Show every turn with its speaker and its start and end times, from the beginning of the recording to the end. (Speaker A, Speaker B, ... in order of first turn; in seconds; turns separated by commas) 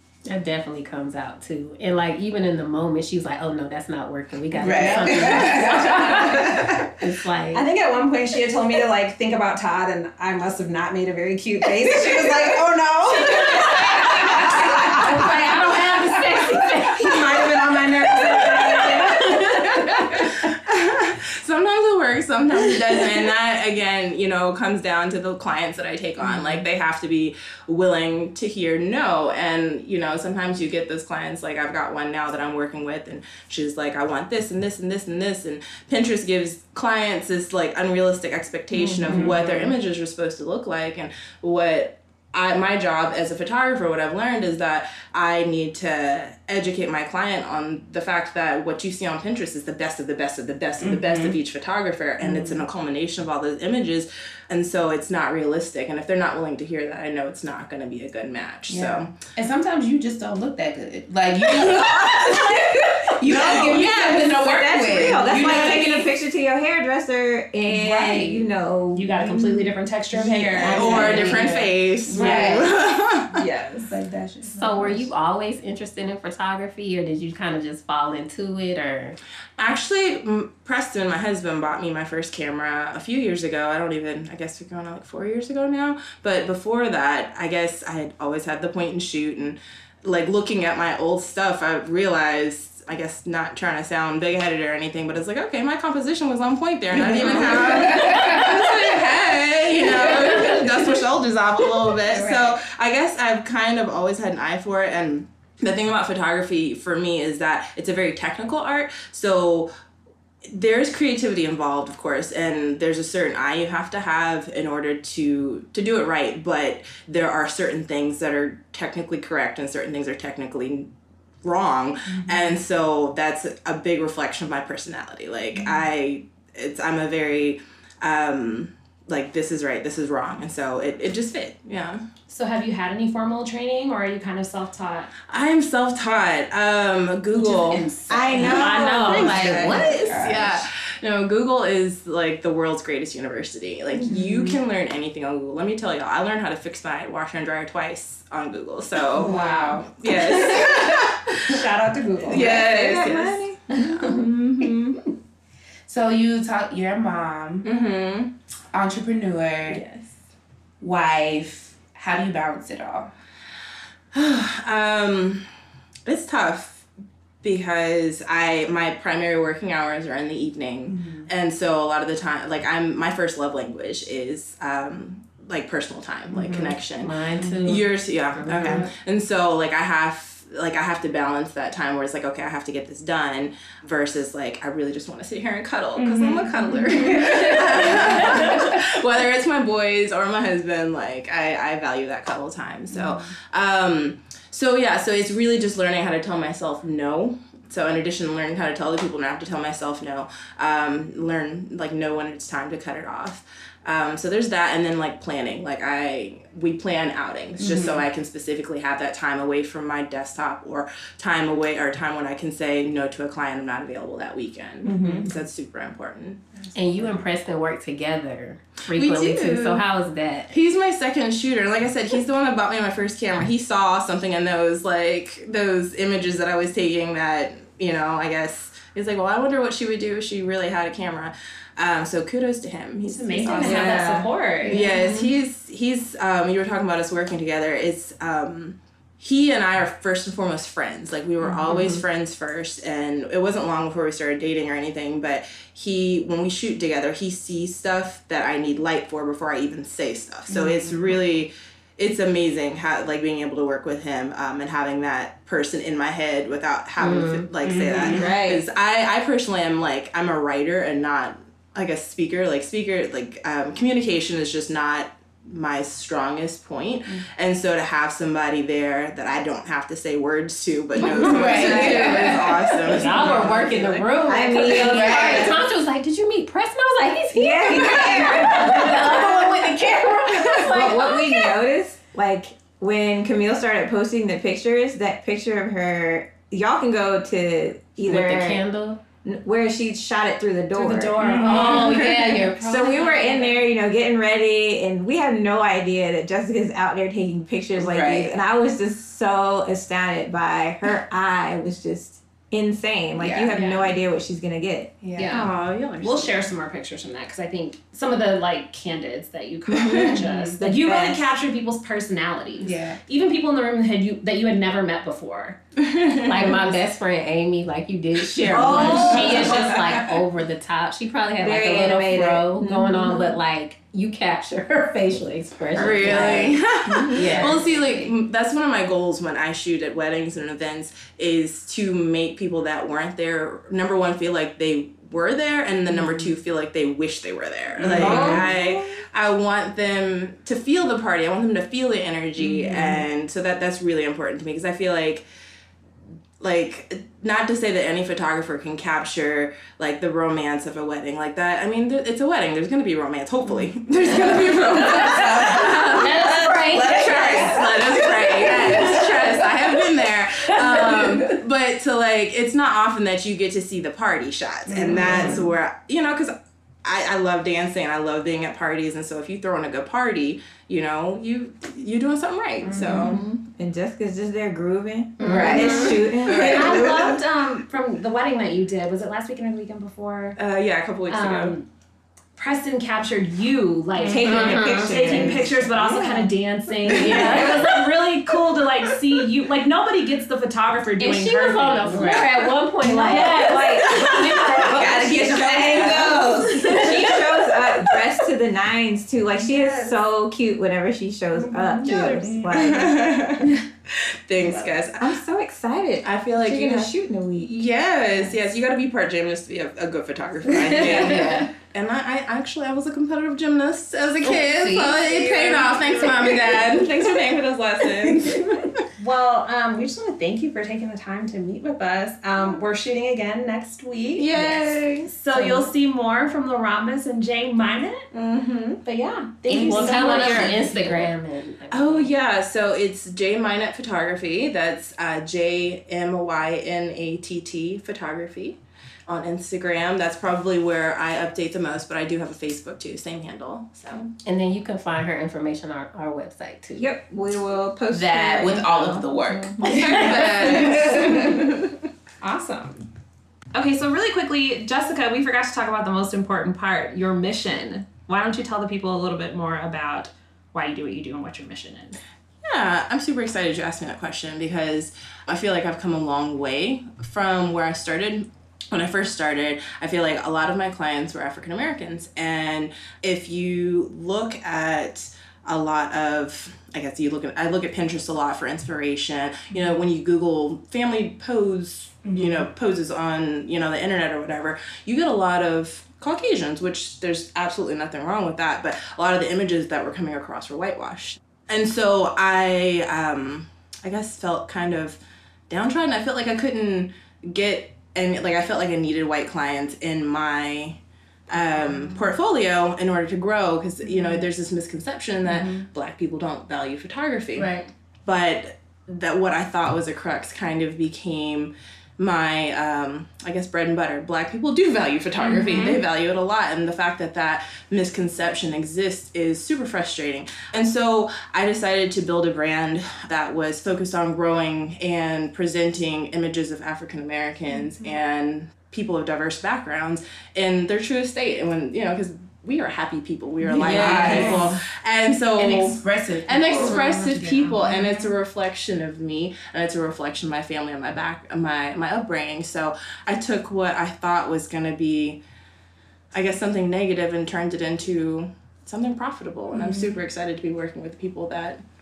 Speaker A: 0.3-7.7, Speaker B: 4.5-6.9, Speaker C: 5.6-6.3, Speaker C: 7.5-19.8, Speaker B: 11.9-15.3, Speaker B: 16.5-19.6, Speaker D: 18.4-59.2, Speaker B: 26.2-26.6, Speaker E: 38.7-39.4, Speaker B: 39.0-39.7, Speaker B: 50.8-51.4, Speaker B: 52.2-52.7, Speaker B: 58.7-66.1, Speaker E: 61.7-69.3, Speaker D: 63.3-64.2, Speaker D: 65.2-65.6, Speaker B: 67.7-68.2, Speaker C: 68.0-71.6, Speaker B: 69.3-72.7, Speaker E: 70.5-71.6, Speaker D: 70.7-73.5, Speaker C: 72.1-72.7, Speaker C: 73.3-73.9, Speaker B: 73.8-75.1, Speaker A: 74.5-79.2, Speaker D: 79.6-109.7, Speaker B: 96.9-101.0, Speaker B: 101.7-102.5, Speaker D: 110.5-120.9, Speaker D: 121.4-132.0, Speaker C: 132.3-135.1, Speaker D: 135.3-151.6, Speaker C: 137.4-138.8, Speaker E: 138.1-140.3, Speaker A: 138.5-140.0, Speaker B: 139.0-140.6, Speaker B: 144.0-144.6, Speaker B: 149.1-150.6, Speaker C: 149.2-150.8, Speaker C: 151.5-152.7, Speaker D: 152.3-155.0, Speaker B: 152.3-153.1, Speaker E: 152.3-153.9, Speaker B: 153.8-154.3, Speaker B: 155.9-157.7, Speaker D: 157.6-158.3, Speaker B: 158.7-159.8, Speaker B: 160.8-163.1, Speaker D: 164.1-165.4, Speaker D: 166.1-166.9, Speaker D: 167.4-216.8, Speaker B: 171.0-171.3, Speaker B: 176.3-176.8, Speaker A: 177.0-178.9, Speaker B: 178.6-178.9, Speaker B: 185.9-188.7, Speaker B: 192.9-193.3, Speaker B: 207.6-208.1, Speaker B: 214.8-215.3, Speaker A: 216.7-220.5, Speaker D: 218.9-219.8, Speaker D: 220.5-273.9, Speaker C: 233.1-234.9, Speaker E: 233.6-234.3, Speaker E: 234.8-235.3, Speaker B: 241.4-241.8, Speaker A: 241.7-242.0, Speaker B: 250.5-251.1, Speaker A: 257.0-257.5, Speaker B: 257.6-258.3, Speaker E: 258.1-258.6, Speaker B: 270.9-274.0, Speaker E: 271.4-272.4, Speaker A: 271.5-272.2, Speaker A: 272.8-281.5, Speaker E: 274.2-275.6, Speaker B: 274.6-275.7, Speaker E: 277.3-279.5, Speaker E: 280.6-288.6, Speaker A: 288.0-289.0, Speaker E: 289.2-291.9, Speaker C: 290.7-293.7, Speaker B: 291.2-292.1, Speaker A: 291.2-293.2, Speaker E: 292.6-304.9, Speaker B: 297.8-298.3, Speaker B: 303.2-303.9, Speaker C: 303.5-303.9, Speaker B: 305.0-305.5, Speaker C: 305.2-305.5, Speaker D: 305.3-306.5, Speaker C: 306.0-315.6, Speaker E: 309.7-311.3, Speaker B: 309.9-310.5, Speaker B: 312.6-313.0, Speaker D: 315.8-316.7, Speaker A: 316.2-326.6, Speaker D: 318.3-319.6, Speaker E: 318.5-319.8, Speaker B: 318.7-320.0, Speaker E: 321.4-323.4, Speaker D: 325.7-345.2, Speaker E: 326.0-328.1, Speaker A: 327.1-327.6, Speaker B: 335.9-336.3, Speaker B: 337.8-338.6, Speaker E: 337.9-339.0, Speaker B: 342.4-343.0, Speaker D: 346.4-373.2, Speaker B: 353.5-359.9, Speaker A: 355.1-357.4, Speaker B: 360.6-361.3, Speaker B: 364.7-365.5, Speaker B: 372.6-373.2, Speaker E: 372.9-377.2, Speaker C: 375.2-380.4, Speaker B: 375.2-377.2, Speaker A: 375.2-375.7, Speaker D: 375.3-377.0, Speaker D: 380.4-381.6, Speaker C: 381.1-381.7, Speaker C: 382.4-392.3, Speaker B: 384.0-384.3, Speaker E: 384.0-385.6, Speaker A: 384.2-385.1, Speaker B: 385.0-386.3, Speaker B: 386.9-387.7, Speaker E: 386.9-387.7, Speaker A: 387.0-387.7, Speaker D: 387.1-387.4, Speaker A: 391.0-394.2, Speaker B: 391.9-392.2, Speaker E: 392.8-403.1, Speaker C: 393.0-395.9, Speaker D: 393.9-394.4, Speaker B: 394.6-397.2, Speaker D: 396.6-397.2, Speaker C: 399.4-399.9, Speaker C: 401.7-402.2, Speaker D: 401.8-405.2, Speaker B: 402.2-402.8, Speaker C: 404.4-404.7, Speaker E: 405.0-407.6, Speaker D: 406.0-418.9, Speaker B: 410.7-411.5, Speaker B: 414.6-415.6, Speaker C: 419.0-428.1, Speaker E: 424.2-425.7, Speaker D: 428.1-428.8, Speaker C: 428.9-430.6, Speaker B: 429.5-429.9, Speaker A: 429.6-432.1, Speaker D: 429.6-431.1, Speaker D: 431.7-444.1, Speaker A: 444.2-446.9, Speaker E: 446.8-451.3, Speaker B: 447.9-451.6, Speaker D: 449.6-451.8, Speaker C: 452.2-452.9, Speaker C: 453.5-462.0, Speaker D: 462.4-545.2, Speaker B: 479.5-479.8, Speaker B: 482.1-482.5, Speaker B: 505.3-505.5, Speaker C: 515.2-515.8, Speaker B: 533.4-534.5, Speaker A: 533.6-534.4, Speaker E: 533.7-534.5, Speaker B: 535.4-538.1, Speaker C: 537.0-537.4, Speaker D: 546.1-551.6, Speaker B: 549.5-550.0